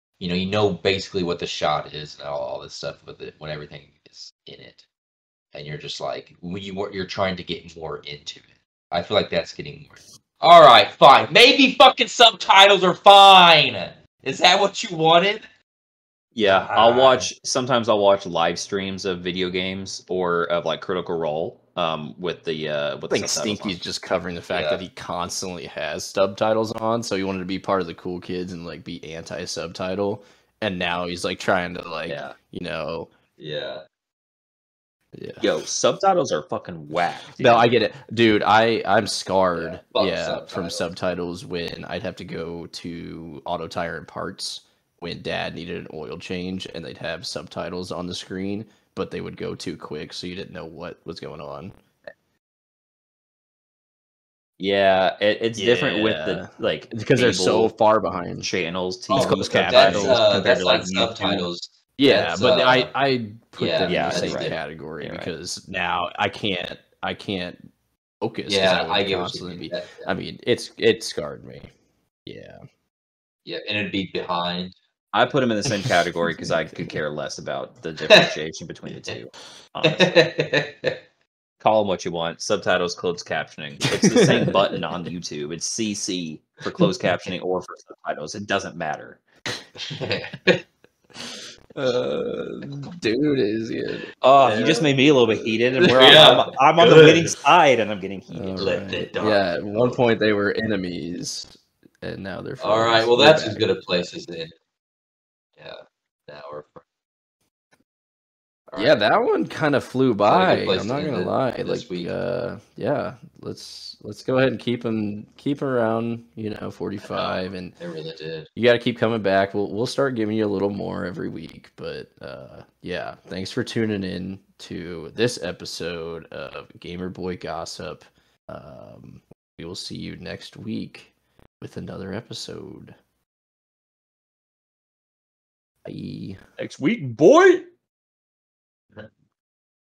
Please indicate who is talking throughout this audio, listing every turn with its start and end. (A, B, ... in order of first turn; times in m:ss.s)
0:00.2-0:04.8 A
0:05.5-0:15.4 A
0:16.3-0:23.8 B
0:16.4-0:17.3 A
0:23.1-0:33.1 C
0:24.5-0:24.8 A
0:32.1-0:32.4 B
0:33.4-0:33.8 A
0:35.1-0:35.4 C
0:35.4-0:37.7 B
0:37.4-0:51.7 C
0:39.6-0:40.9 A
0:54.6-0:57.7 B
0:55.6-0:58.5 C
0:58.4-1:01.5 B
0:59.1-1:02.9 A
0:59.2-1:00.2 C
1:02.0-1:07.6 C
1:03.6-1:04.6 A
1:03.9-1:05.3 B
1:08.2-1:11.7 C
1:08.5-1:10.1 A
1:12.2-1:12.6 C
1:13.4-1:14.7 A
1:15.1-1:20.3 B
1:15.8-1:17.0 C
1:19.8-1:21.0 A
1:21.6-1:29.2 B
1:23.9-1:24.9 C
1:29.8-1:30.6 A
1:31.2-1:35.6 C
1:34.2-1:38.8 B
1:34.4-1:34.9 A
1:35.8-1:37.3 A
1:38.3-1:43.8 C
1:38.6-1:40.0 A
1:42.6-1:44.5 A
1:45.6-1:46.8 A
1:48.7-1:49.0 A
1:48.8-1:57.7 C
1:50.2-1:52.1 A
1:57.0-1:58.5 A
1:58.6-2:13.0 C
2:15.8-2:16.4 C
2:16.6-2:17.7 B